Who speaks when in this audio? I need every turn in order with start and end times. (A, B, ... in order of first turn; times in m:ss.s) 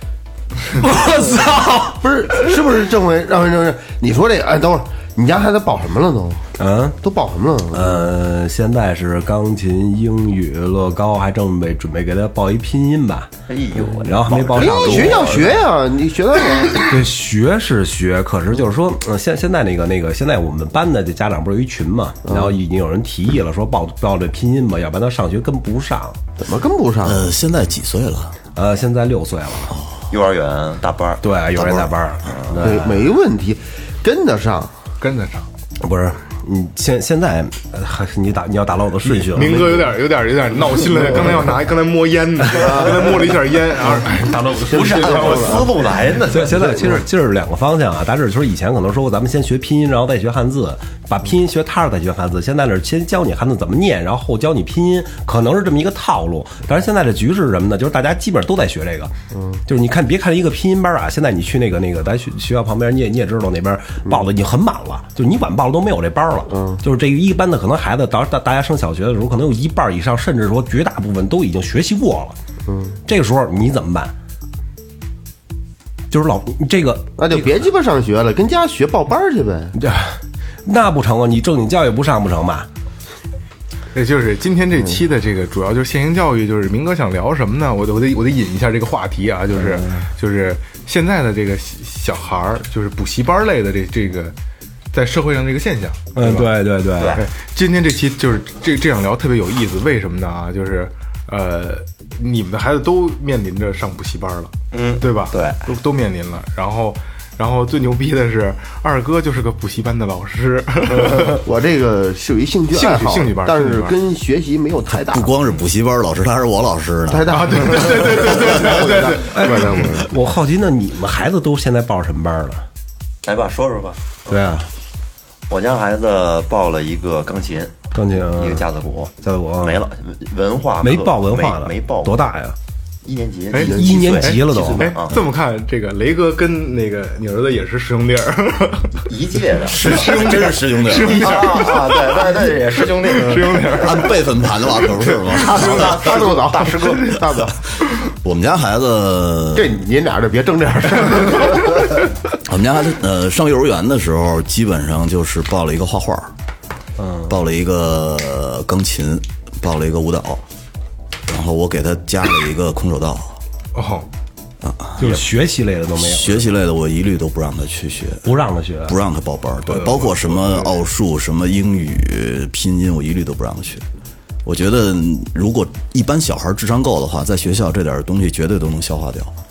0:00.8-0:06.4 A
0:06.6-0:07.0 B
0:07.0-0:08.0 A
0:07.7-0:13.3 B
0:13.5-0:15.5 C
0:14.0-0:15.7 B
0:14.5-0:17.0 A
0:16.8-0:26.2 B
0:26.4-0:27.3 A
0:27.0-0:28.4 D
0:28.6-0:29.7 B
0:29.7-0:30.0 D
0:30.1-0:32.6 C
0:31.2-0:33.1 B
0:32.6-0:34.8 A
0:35.0-0:35.5 E
0:35.8-0:39.7 B
0:39.0-0:46.0 E
0:44.7-0:45.8 A
0:44.7-0:46.7 C
0:46.3-0:59.1 B
0:59.3-0:59.6 A
0:59.7-1:12.4 B
1:06.5-1:06.8 A
1:12.7-1:13.0 A
1:13.1-1:14.1 B
1:16.1-1:17.5 B
1:17.2-1:19.8 A
1:19.8-1:22.7 B
1:23.9-1:34.4 E
1:29.6-1:30.1 B
1:34.9-1:36.5 E
1:36.2-1:37.2 B
1:37.2-1:51.4 E
1:44.7-1:45.6 C
1:51.2-1:55.3 A
1:52.7-1:54.0 E
1:55.0-1:57.3 D
1:57.1-2:00.1 A
1:57.3-2:00.0 E
1:59.3-2:02.7 B
2:03.2-2:04.0 C
2:04.3-2:04.7 B
2:05.5-2:12.2 C
2:07.9-2:08.7 B
2:09.2-2:09.8 B
2:10.8-2:12.6 B
2:13.0-2:15.3 C
2:13.5-2:19.1 E
2:13.7-2:14.9 B
2:19.1-2:20.1 C
2:19.7-2:24.3 E
2:19.7-2:21.6 D
2:20.9-2:24.0 C
2:23.7-2:26.2 D
2:25.0-2:25.6 E
2:25.4-2:27.5 C
2:25.4-2:27.6 A
2:28.1-2:29.7 D
2:29.5-2:31.9 A
2:32.4-2:36.3 D
2:37.0-2:37.3 B
2:37.3-2:40.4 D
2:41.3-2:43.4 D
2:43.8-2:44.1 E
2:44.6-2:45.2 D
2:45.0-2:46.5 B
2:46.0-2:48.3 D
2:48.2-2:49.0 B
2:48.9-2:53.8 D
2:49.7-2:50.7 E
2:54.4-2:59.3 D